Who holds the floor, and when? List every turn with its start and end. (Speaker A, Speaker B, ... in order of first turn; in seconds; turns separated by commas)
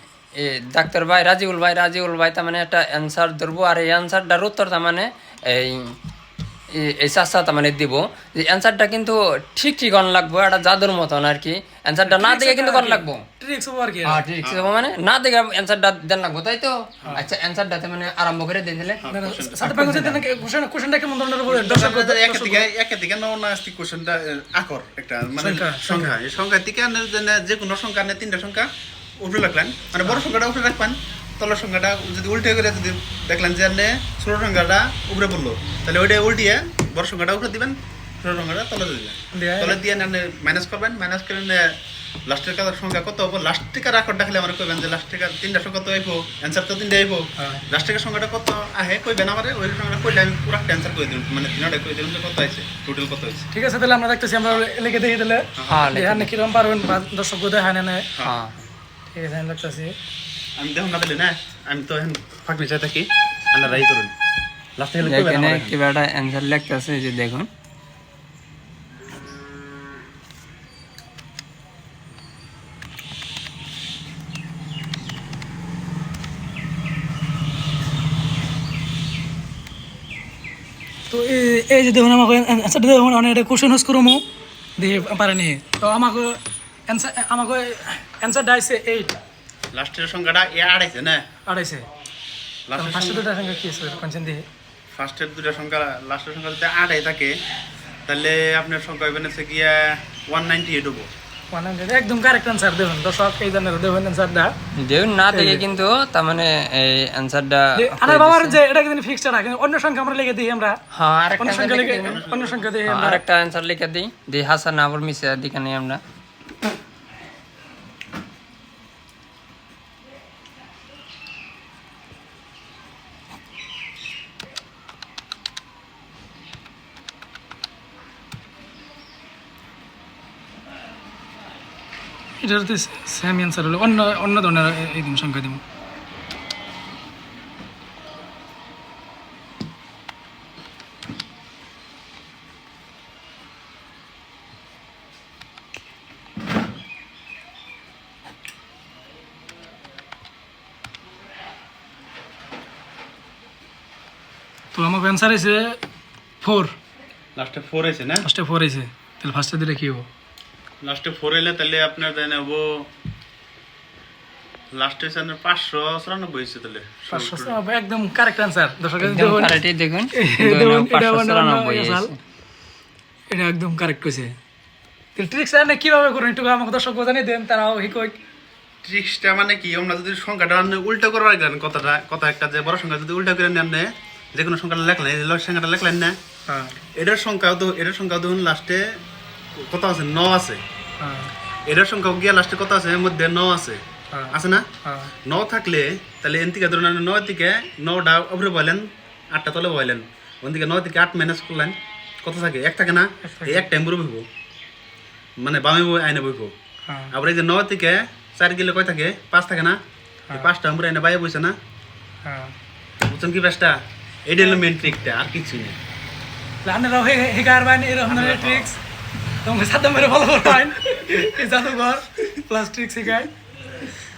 Speaker A: 0.4-5.9, Speaker A: 6.7-13.2, Speaker B: 12.1-14.2, Speaker A: 14.1-19.0, Speaker C: 14.4-14.9, Speaker C: 19.0-19.8, Speaker B: 19.1-22.7, Speaker A: 19.7-20.1, Speaker C: 21.5-28.7, Speaker B: 25.4-26.1, Speaker C: 29.2-41.7, Speaker B: 39.3-39.8, Speaker C: 42.3-53.5, Speaker B: 53.5-58.1, Speaker C: 55.6-55.9, Speaker A: 55.7-56.3, Speaker A: 58.2-58.6, Speaker B: 59.1-59.9, Speaker C: 60.6-64.1, Speaker C: 64.8-65.7, Speaker A: 65.0-67.5, Speaker B: 81.1-84.2, Speaker B: 84.8-89.2, Speaker C: 89.7-91.2, Speaker B: 91.5-91.8, Speaker C: 92.7-93.2, Speaker B: 92.8-94.4, Speaker C: 94.9-97.3, Speaker C: 98.1-101.1, Speaker B: 101.5-104.5, Speaker A: 104.8-108.6, Speaker B: 105.3-105.6, Speaker B: 107.8-110.8, Speaker A: 110.9-112.2, Speaker B: 111.4-113.2, Speaker C: 112.0-112.7, Speaker A: 112.8-116.0, Speaker B: 132.4-135.6, Speaker B: 154.7-155.8, Speaker B: 156.4-156.7, Speaker C: 157.3-158.2, Speaker B: 158.2-160.1, Speaker C: 160.8-162.9, Speaker C: 164.7-167.6, Speaker B: 167.1-169.6, Speaker A: 169.0-172.2, Speaker B: 170.1-172.1, Speaker B: 173.3-174.3, Speaker B: 175.2-178.2, Speaker C: 178.8-186.1, Speaker B: 186.5-186.7, Speaker C: 186.9-188.9, Speaker C: 189.6-190.6, Speaker B: 191.0-191.3, Speaker C: 191.7-194.7, Speaker B: 194.1-195.1, Speaker C: 195.2-204.2, Speaker B: 203.2-203.6, Speaker C: 205.4-206.5, Speaker B: 206.9-207.1, Speaker C: 207.1-209.8, Speaker C: 210.3-211.5, Speaker B: 212.2-212.5, Speaker C: 213.0-213.7, Speaker C: 214.2-215.8, Speaker B: 214.4-214.9, Speaker B: 216.6-218.8, Speaker C: 218.1-218.7, Speaker B: 219.4-223.3